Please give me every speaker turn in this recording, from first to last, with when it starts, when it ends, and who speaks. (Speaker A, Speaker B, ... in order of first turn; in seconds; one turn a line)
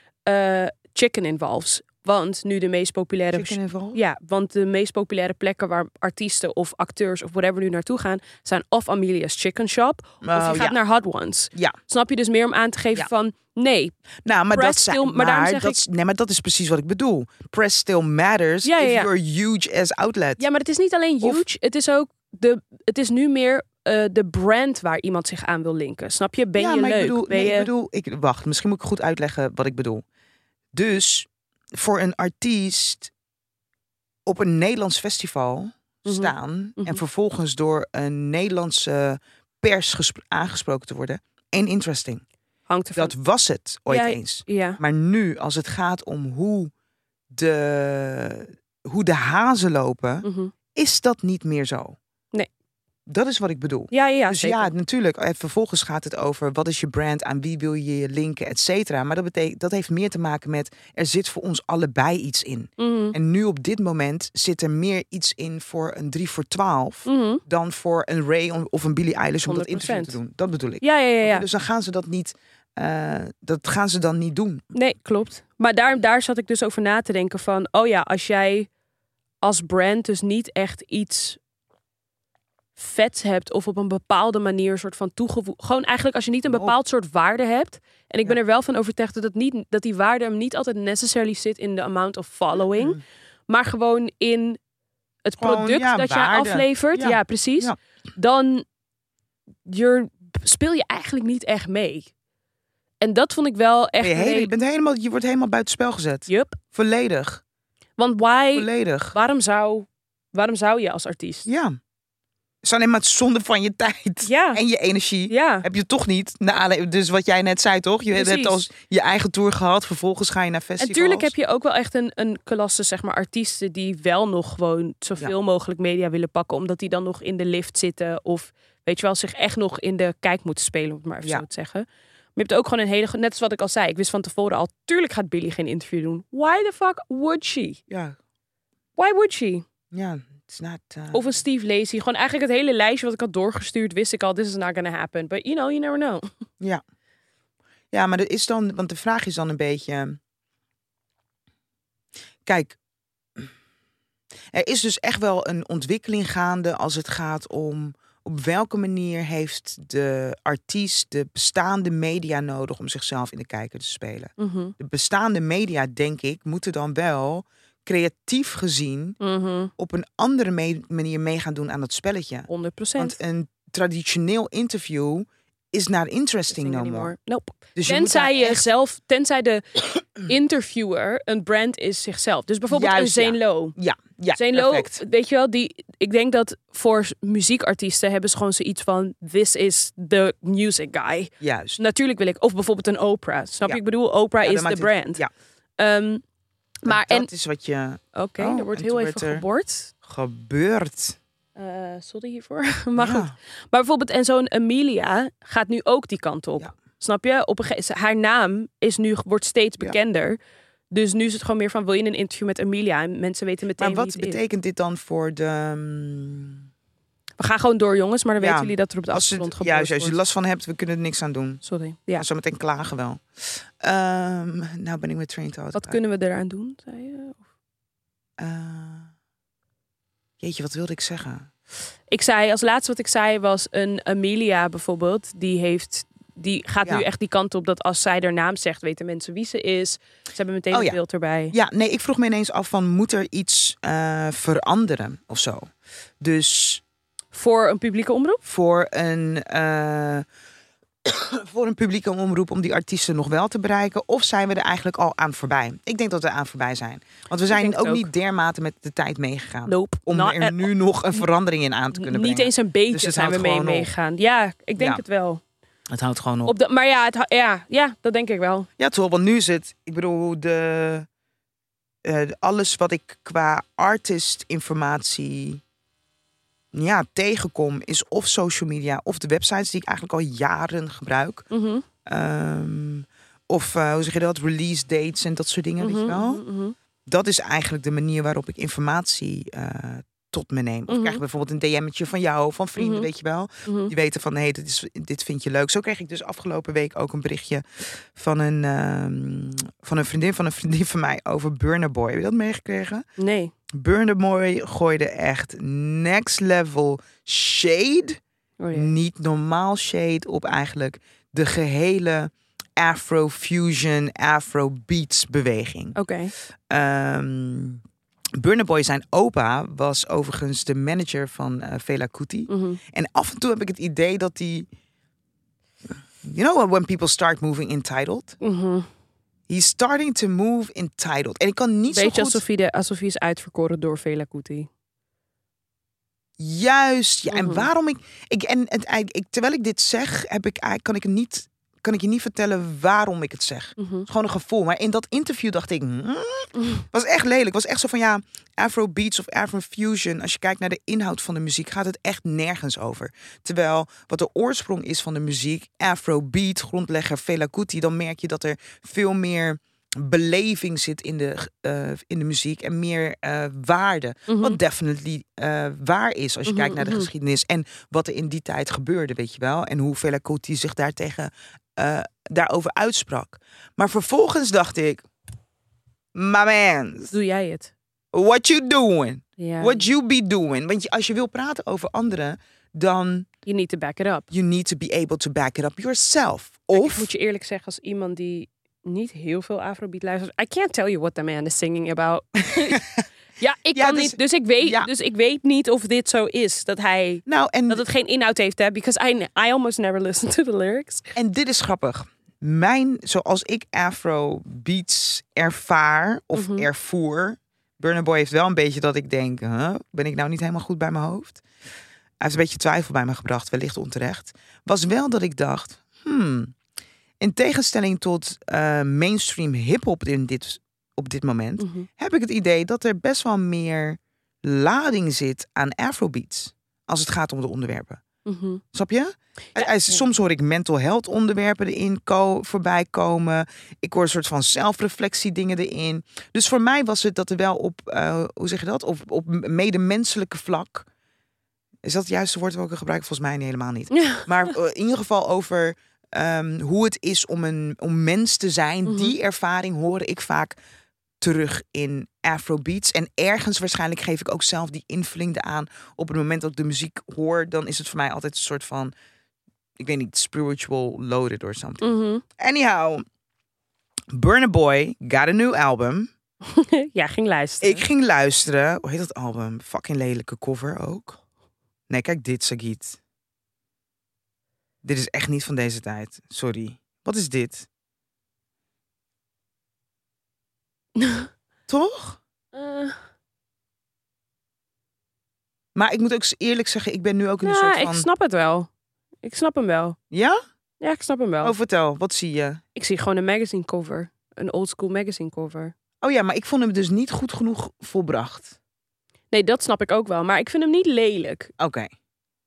Speaker A: 0.2-13.9
Speaker B: 3.3-4.0
Speaker B: 10.2-10.8
Speaker B: 14.2-20.4
Speaker A: 14.5-15.8
Speaker A: 18.6-19.1
Speaker A: 20.4-27.7
Speaker B: 26.6-30.0
Speaker B: 30.7-33.1
Speaker B: 34.2-42.2
Speaker A: 36.0-37.0
Speaker A: 42.7-43.1
Speaker B: 42.9-46.7
Speaker A: 43.9-44.8
Speaker B: 47.3-52.0
Speaker A: 50.2-50.5
Speaker B: 53.1-74.7
Speaker A: 53.9-54.7
Speaker A: 62.8-63.1
Speaker A: 67.0-67.4
Speaker A: 69.5-70.2
Speaker A: 70.8-71.5
Speaker A: 74.7-78.7
Speaker A: 79.4-81.4
Speaker A: 82.8-94.6
Speaker B: 86.5-86.7
Speaker A: 95.2-98.6
Speaker B: 95.4-97.8
Speaker A: 99.6-102.1
Speaker A: 103.0-104.5
Speaker B: 104.0-107.4
Speaker A: 106.3-106.6
Speaker A: 108.0-111.5
Speaker B: 108.5-109.2
Speaker B: 111.5-111.8
Speaker B: 112.6-121.3
Speaker A: 114.2-114.6
Speaker A: 115.3-115.6
Speaker A: 118.1-118.6
Speaker A: 120.8-137.8
Speaker B: 137.9-138.2
Speaker A: 139.0-139.6
Speaker B: 139.9-141.2
Speaker A: 141.1-146.3
Speaker B: 147.9-150.2
Speaker B: 152.4-152.8
Speaker B: 154.5-169.2
Speaker A: 164.4-164.7
Speaker A: 169.2-169.7
Speaker B: 169.8-177.1
Speaker A: 172.5-173.2
Speaker A: 176.5-183.8
Speaker B: 177.7-178.7
Speaker B: 182.7-185.0
Speaker A: 184.3-195.2
Speaker B: 191.4-191.8
Speaker B: 194.4-195.3
Speaker A: 195.8-196.2
Speaker A: 196.8-197.3
Speaker B: 196.8-199.4
Speaker A: 198.1-199.9
Speaker B: 200.0-201.2
Speaker A: 201.6-210.4
Speaker B: 203.0-203.3
Speaker A: 210.9-214.4
Speaker B: 213.8-216.6
Speaker A: 217.4-220.2
Speaker B: 218.4-221.6
Speaker A: 221.6-222.2
Speaker B: 222.2-226.0
Speaker A: 225.7-227.4
Speaker B: 228.4-229.1
Speaker B: 230.4-231.5
Speaker A: 232.1-241.5
Speaker B: 240.7-241.0
Speaker B: 241.5-246.8
Speaker A: 247.3-248.4
Speaker B: 248.4-250.2
Speaker B: 251.0-263.9
Speaker A: 257.5-258.1
Speaker A: 259.7-261.2
Speaker A: 261.9-265.4
Speaker B: 265.9-266.5
Speaker A: 266.4-268.7
Speaker B: 268.8-271.1
Speaker B: 272.0-275.6
Speaker B: 276.7-281.4
Speaker A: 281.5-281.8
Speaker B: 282.0-286.4
Speaker A: 285.8-286.7
Speaker B: 287.1-303.0
Speaker A: 290.9-291.2
Speaker A: 292.8-293.1
Speaker A: 293.6-293.9
Speaker A: 303.2-303.5
Speaker B: 303.7-308.2
Speaker A: 308.6-308.9
Speaker B: 308.7-316.0
Speaker A: 315.9-316.3
Speaker B: 316.7-317.8
Speaker B: 318.4-324.7
Speaker A: 322.5-322.8
Speaker B: 326.2-328.4
Speaker A: 328.4-328.9
Speaker B: 329.5-332.4
Speaker A: 331.9-334.7
Speaker B: 336.4-375.0
Speaker A: 337.3-337.7
Speaker A: 343.8-344.1
Speaker A: 346.6-346.8
Speaker A: 364.3-364.6
Speaker A: 366.4-367.1
Speaker B: 376.1-377.1
Speaker A: 377.1-377.7
Speaker B: 378.1-383.3
Speaker A: 379.4-379.9
Speaker A: 383.4-384.3
Speaker B: 384.3-387.1
Speaker A: 386.8-392.8
Speaker B: 392.4-393.0
Speaker A: 393.4-401.1
Speaker B: 393.7-394.9
Speaker B: 397.2-397.8
Speaker B: 401.1-411.4
Speaker A: 406.3-406.7
Speaker B: 412.2-416.5
Speaker B: 417.2-428.0
Speaker A: 421.6-421.9
Speaker A: 428.2-428.6
Speaker B: 428.7-440.9
Speaker A: 429.5-430.0
Speaker B: 441.8-450.6
Speaker A: 443.9-444.3
Speaker A: 448.9-449.1
Speaker B: 451.2-458.9
Speaker B: 459.8-461.9
Speaker A: 461.8-462.2
Speaker B: 462.4-463.0
Speaker B: 464.1-466.1
Speaker A: 466.4-467.9
Speaker B: 467.6-471.2
Speaker B: 471.9-473.0
Speaker B: 474.8-477.7
Speaker A: 480.9-481.3
Speaker B: 481.7-482.2
Speaker A: 482.5-483.0
Speaker B: 485.7-488.1
Speaker A: 487.4-488.7
Speaker A: 489.2-490.0
Speaker B: 490.1-490.4
Speaker A: 490.8-491.5
Speaker B: 491.4-492.6
Speaker A: 492.8-495.7
Speaker B: 496.0-498.6
Speaker A: 499.3-501.5
Speaker B: 501.6-501.9